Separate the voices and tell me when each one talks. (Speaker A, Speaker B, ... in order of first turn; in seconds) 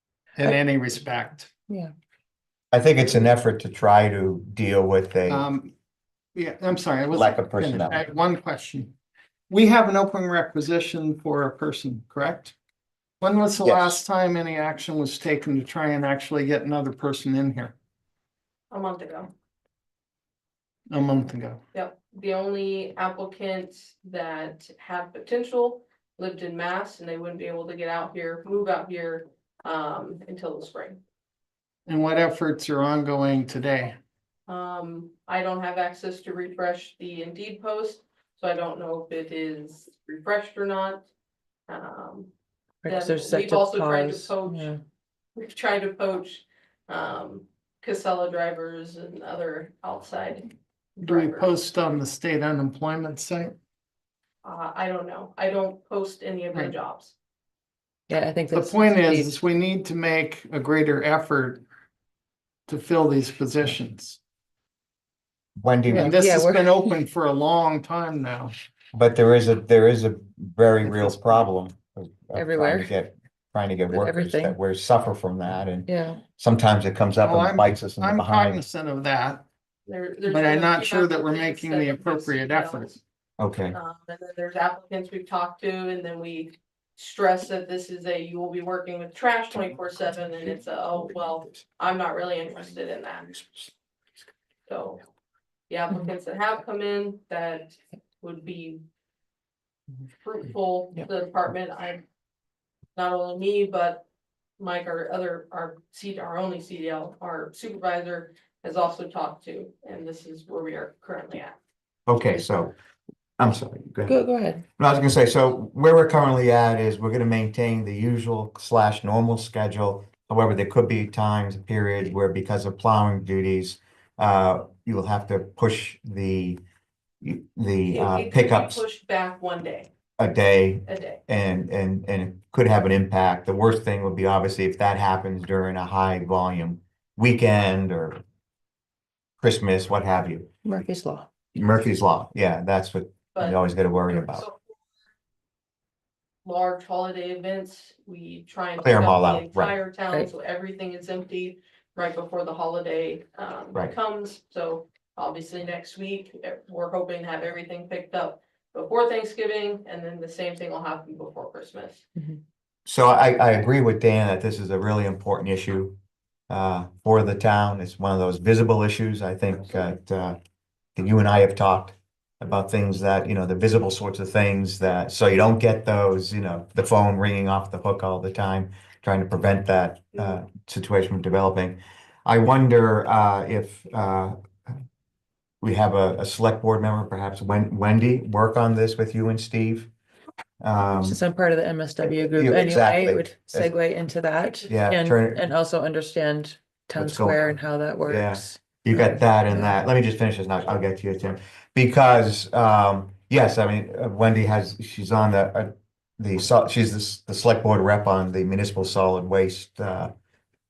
Speaker A: 0.3-1.5, 5.3-5.7, 6.3-8.9, 9.5-12.5, 13.2-17.7, 20.9-21.6, 31.9-34.0, 51.0-53.5, 58.5-61.6, 62.7-64.2, 65.9-68.5, 70.9-71.2, 77.2-79.4, 80.3-82.9
Speaker B: 2.7-5.5, 7.1-8.0, 13.6-14.0, 65.6-66.2, 68.9-78.6, 83.4-83.8, 112.1-112.7, 113.4-114.2, 114.8-126.6, 127.2-128.8, 130.2-138.2, 139.4-140.5, 141.5-144.4, 148.8-149.8, 162.8-165.9, 166.5-170.4, 170.9-184.7, 185.6-189.9, 190.6-191.2, 192.2-193.7, 194.7-195.5, 196.9-210.1
Speaker C: 18.7-19.3, 21.7-31.0, 34.5-41.1, 41.7-42.3, 42.9-44.7, 45.4-51.5, 54.4-57.1, 79.9-83.0, 83.7-93.4, 94.7-95.0, 95.7-98.8, 100.2-102.0, 103.0-104.0, 104.6-111.5, 127.9-129.9, 130.8-131.2, 144.3-144.7, 146.4-162.0
Speaker D: 42.8-44.8, 58.1-59.4, 65.9-66.8, 72.3-72.9, 73.9-74.6, 75.8-76.2, 114.0-114.6, 140.6-141.3, 190.8-199.7